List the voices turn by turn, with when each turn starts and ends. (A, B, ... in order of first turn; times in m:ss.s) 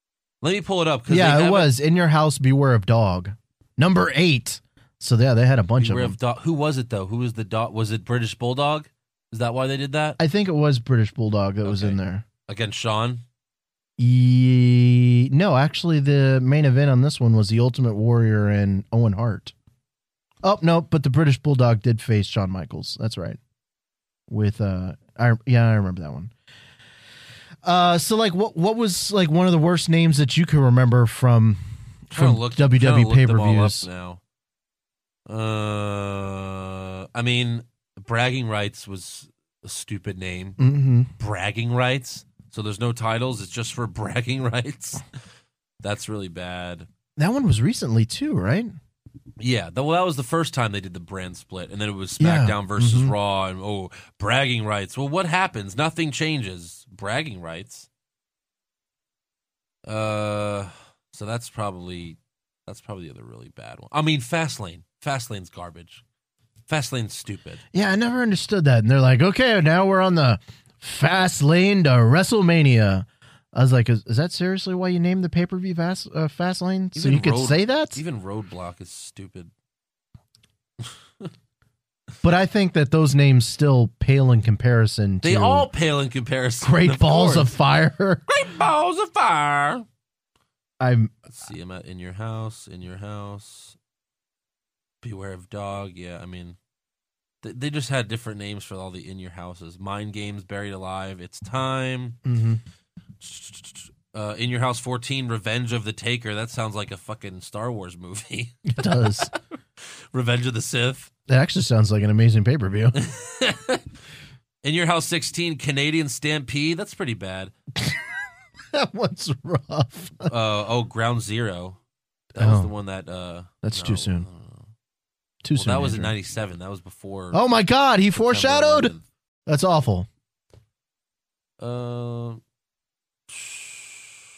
0:00.4-0:01.7 A
0:01.1-0:06.2 B
0:05.8-0:10.2 A
0:10.2-0:12.2 B
0:11.6-0:13.2 A
0:14.0-0:19.5 B
0:20.4-0:23.4 B
0:24.3-0:26.3 B
0:27.6-0:33.9 B
0:32.1-0:34.2 A
0:35.3-0:40.6 A
0:40.6-0:41.1 B
0:41.2-0:45.0 A
0:45.8-0:46.9 A
0:47.2-0:48.8 B
0:49.4-0:57.9 A
0:52.2-0:53.2 B
0:59.9-1:06.0 A
1:06.7-1:07.6 A
1:07.7-1:18.0 B
1:16.9-1:19.5 A
1:22.2-1:25.7 B
1:25.2-1:27.5 A
1:26.6-1:28.2 B
1:28.3-1:29.8 A
1:30.8-1:31.1 B
1:31.3-1:33.8 A
1:35.0-1:36.6 A
1:37.4-1:42.2 A
1:42.2-1:42.6 B
1:43.2-1:51.1 A
1:48.7-1:49.3 B
1:51.3-1:53.0 B
1:52.9-1:53.8 A
1:54.6-1:57.5 A
1:57.8-1:58.0 B
1:58.7-2:00.3 B
2:00.2-2:01.8 A
2:02.3-2:04.7 A
2:02.4-2:02.7 B
2:03.6-2:04.3 B
2:05.4-2:06.1 B
2:05.6-2:07.4 A
2:07.3-2:08.9 B
2:08.2-2:09.0 A
2:09.5-2:10.1 B
2:11.6-2:12.4 A
2:13.3-2:14.2 A